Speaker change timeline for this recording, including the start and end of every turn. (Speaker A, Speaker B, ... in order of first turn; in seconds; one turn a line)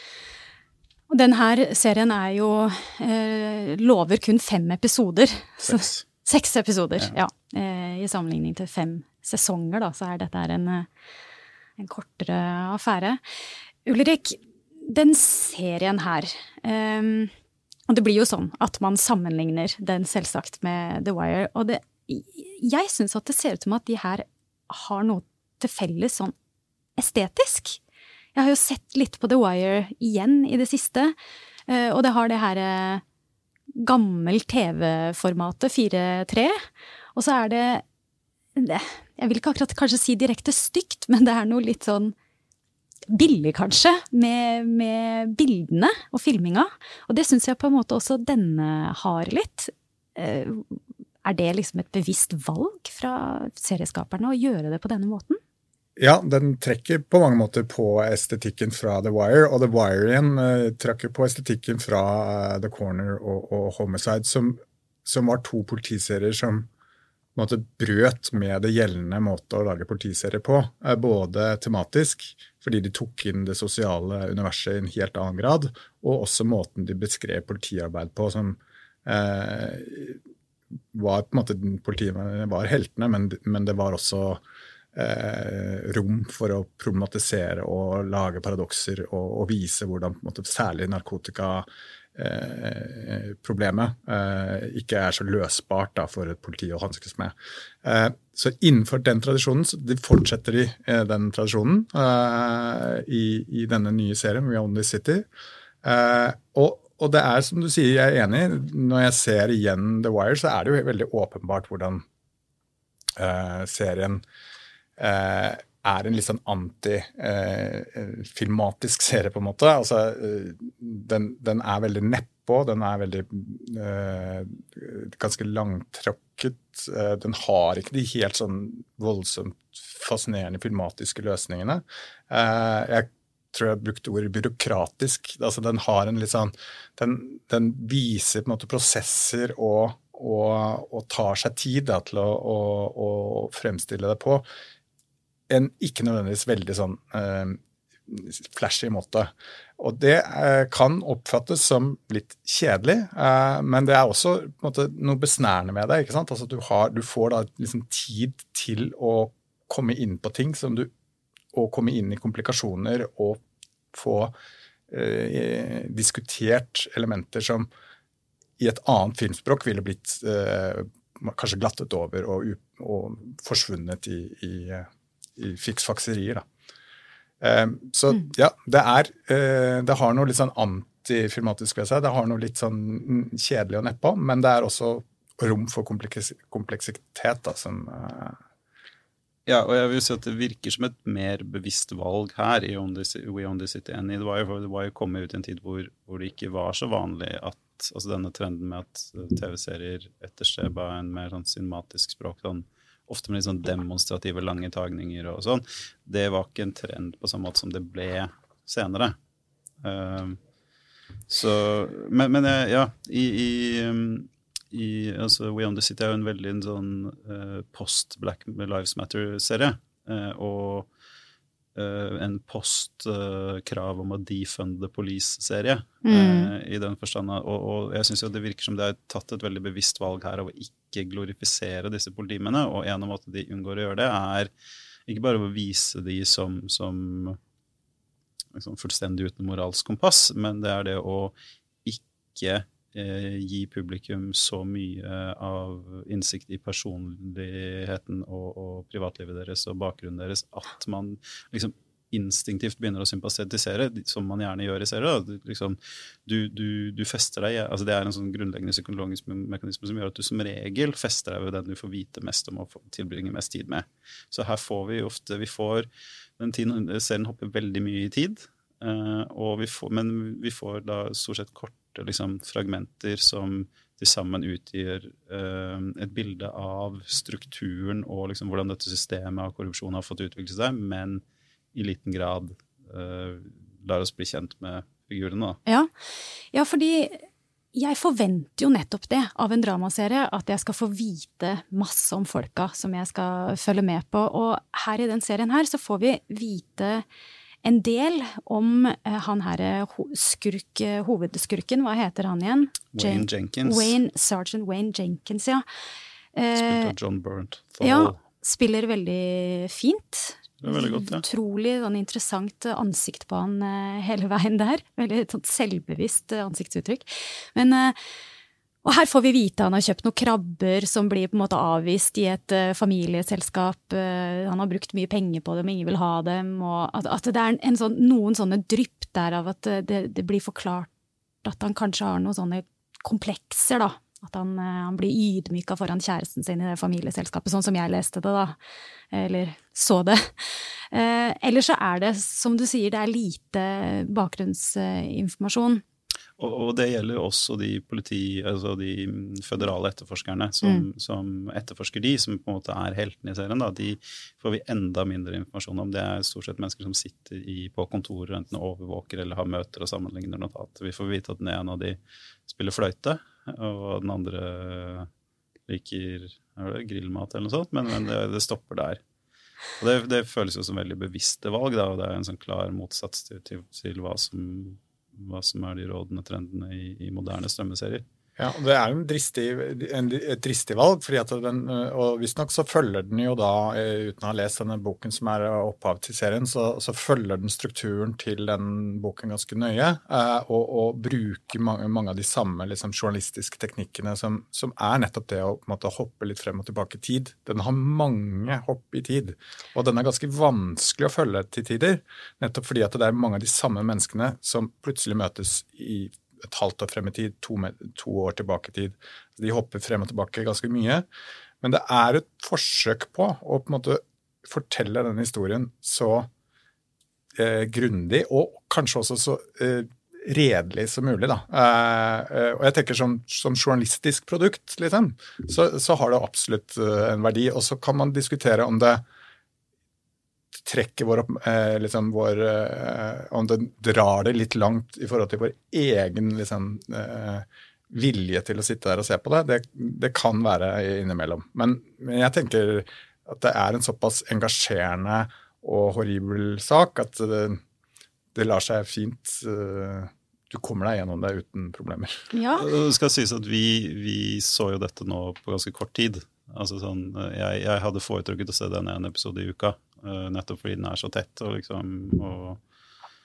Speaker A: 1.1-10.9
Speaker B: 5.7-6.0
Speaker A: 11.8-13.2
Speaker A: 13.8-17.3
Speaker A: 17.9-26.3
Speaker A: 27.0-27.8
Speaker A: 28.3-31.1
Speaker A: 31.7-33.0
Speaker A: 33.8-36.6
Speaker A: 37.1-37.8
Speaker A: 38.5-42.1
Speaker A: 43.1-55.4
Speaker C: 56.0-66.7
Speaker C: 67.3-80.2
Speaker C: 80.9-84.4
Speaker C: 84.9-105.3
Speaker C: 105.8-112.0
Speaker C: 113.2-114.2
Speaker C: 115.0-144.4
Speaker C: 145.5-160.9
Speaker C: 161.5-163.4
Speaker C: 163.9-164.3
Speaker C: 164.9-167.7
Speaker C: 168.6-176.4
Speaker C: 177.4-188.4
Speaker B: 189.4-209.1
Speaker B: 209.8-210.4
Speaker B: 211.3-220.9
Speaker B: 221.7-234.5
Speaker A: 226.0-226.5
Speaker B: 235.1-237.4
Speaker B: 238.5-265.9
Speaker B: 266.4-281.2
Speaker B: 281.7-285.6
Speaker A: 286.5-297.0
Speaker A: 297.6-305.6
Speaker B: 302.9-304.0
Speaker A: 306.3-306.9
Speaker B: 306.5-308.2
Speaker A: 307.8-318.0
Speaker B: 310.6-311.2
Speaker A: 318.8-330.9
Speaker A: 331.4-338.6
Speaker A: 339.1-345.8
Speaker B: 346.4-365.1
Speaker B: 365.7-369.0
Speaker B: 369.8-378.0
Speaker C: 378.4-411.1
Speaker C: 411.6-416.3
Speaker C: 417.4-429.0
Speaker C: 430.6-447.6
Speaker C: 448.3-452.1
Speaker A: 452.3-452.7
Speaker B: 452.5-462.6